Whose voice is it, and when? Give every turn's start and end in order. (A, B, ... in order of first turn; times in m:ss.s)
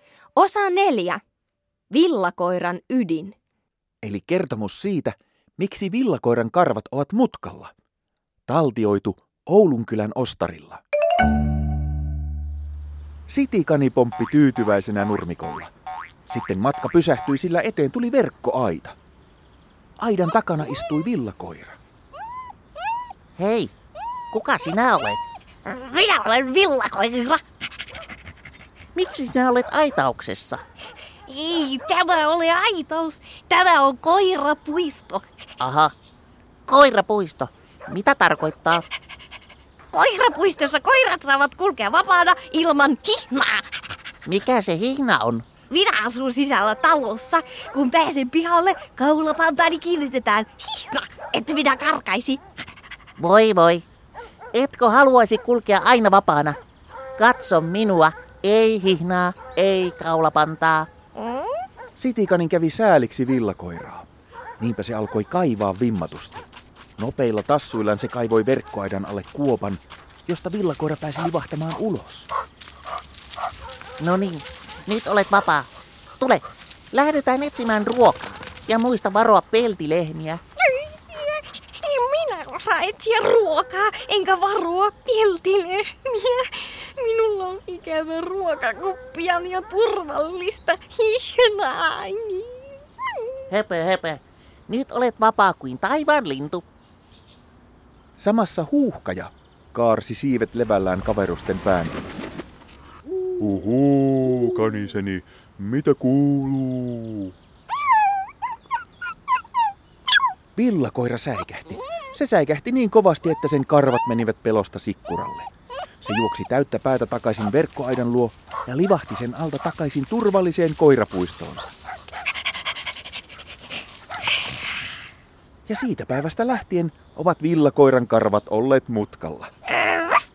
0:00.4-0:01.2 A
0:01.9-0:03.3 A
0:04.0-0:07.7 B
0:08.5-0:10.8 B
0:13.3-0:15.7 B
0:16.3-0:19.0 B
0:20.0-0:21.8 B
0:23.4-0:23.7 C
0:24.3-0:25.2 C
0:25.6-0:27.4 A
0:28.9-0:30.6 C
0:31.3-0:35.2 A
0:35.6-0:35.9 C
0:36.7-0:38.8 C
0:39.9-0:43.6 A
0:44.2-0:45.4 C
0:45.7-0:52.4 A
0:53.2-0:53.8 C
0:54.5-0:56.6 C
0:57.2-1:00.9 C
1:02.0-1:04.0 B
1:04.6-1:06.5 B
1:07.0-1:12.3 B
1:14.0-1:15.7 C
1:16.2-1:20.4 C
1:21.1-1:32.6 A
1:33.5-1:36.6 C
1:38.2-1:42.0 B
1:43.4-1:47.3 B
1:50.6-1:55.5 B
1:56.0-2:01.7 B
2:05.7-2:09.5 B